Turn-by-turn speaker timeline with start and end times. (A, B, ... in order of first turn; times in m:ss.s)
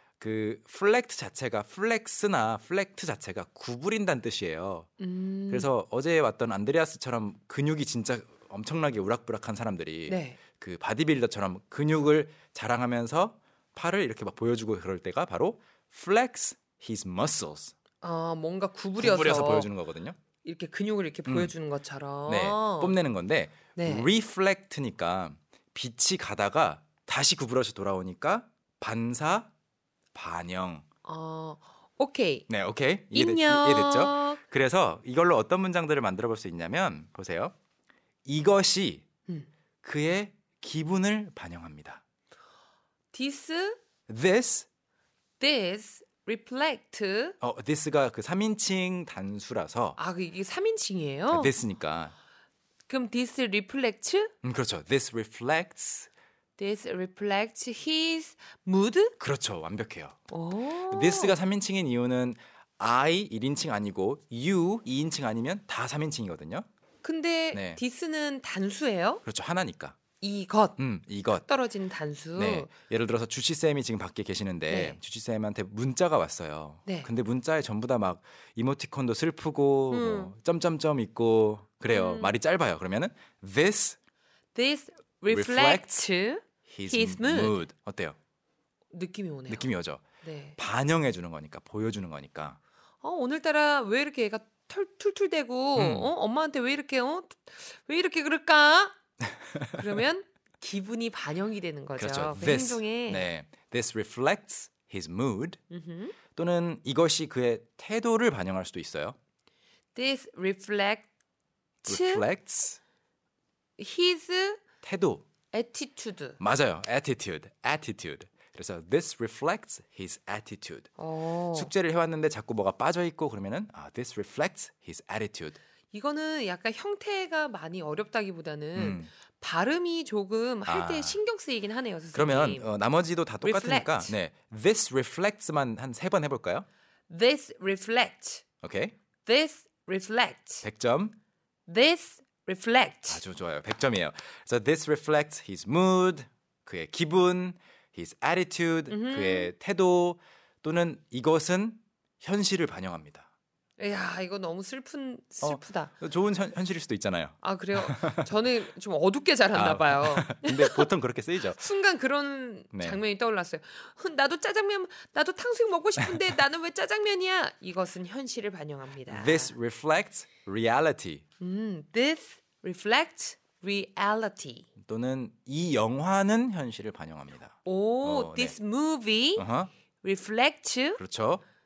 0:00.2-0:04.9 A
0:05.0-0:05.7 B
0:05.5-0:17.7 A
0:10.1-0:10.4 B
0:18.0-0:19.7 B
0:19.0-0:20.2 A
0:20.4-0:23.0 B
0:21.2-0:21.5 A
0:22.3-0:29.5 A
0:23.7-0:24.1 B
0:30.1-0:30.8 A
0:31.0-0:32.4 B
0:32.5-0:37.5 A
0:33.1-0:34.4 B
0:38.2-0:39.0 A
0:39.8-0:42.0 A
0:43.1-0:43.8 B
0:44.1-0:44.7 A
0:45.4-0:47.4 B
0:47.4-0:50.0 A
0:50.0-0:51.5 B
0:51.3-0:52.1 A
0:52.9-0:54.3 B
0:54.4-0:56.1 A
0:56.6-0:59.1 B
0:59.2-1:00.3 A
1:00.3-1:01.4 B
1:00.9-1:06.6 A
1:07.0-1:09.2 B
1:07.5-1:07.8 A
1:09.2-1:10.0 A
1:10.2-1:10.8 B
1:10.8-1:11.4 A
1:11.4-1:12.7 B
1:12.4-1:24.0 A
1:14.7-1:15.0 B
1:19.9-1:20.3 B
1:21.9-1:22.3 B
1:24.5-1:27.6 B
1:25.3-1:25.9 A
1:26.7-1:28.2 A
1:28.9-1:30.6 B
1:29.5-1:30.0 A
1:30.6-1:32.6 A
1:33.0-1:39.0 B
1:35.8-1:36.1 A
1:39.2-1:39.9 A
1:39.7-1:43.3 B
1:42.0-1:45.6 A
1:45.7-1:46.1 B
1:46.4-1:49.2 A
1:49.9-1:51.1 B
1:51.8-1:52.2 B
1:51.8-1:52.8 A
1:53.8-1:54.6 B
1:54.8-1:55.2 A
1:55.5-1:56.4 B
1:56.4-2:00.9 A
2:01.0-2:01.7 B
2:01.5-2:05.6 A
2:05.9-2:12.7 B
2:08.8-2:09.1 A
2:10.6-2:11.2 A
2:12.1-2:16.7 A
2:13.4-2:14.1 B
2:17.1-2:18.4 B
2:18.6-2:18.9 A
2:19.2-2:20.6 B
2:20.6-2:21.2 A
2:21.7-2:23.2 B
2:23.1-2:33.3 A
2:28.9-2:29.5 B
2:33.8-2:35.9 B
2:35.4-2:38.3 A
2:37.4-2:40.9 B
2:39.5-2:41.6 A
2:41.4-2:49.5 B
2:42.7-2:43.0 A
2:49.1-2:51.2 A
2:51.4-2:54.7 B
2:54.8-2:58.5 A
2:57.6-2:59.5 B
2:59.4-2:59.7 A
3:00.0-3:01.0 B
3:01.0-3:01.4 A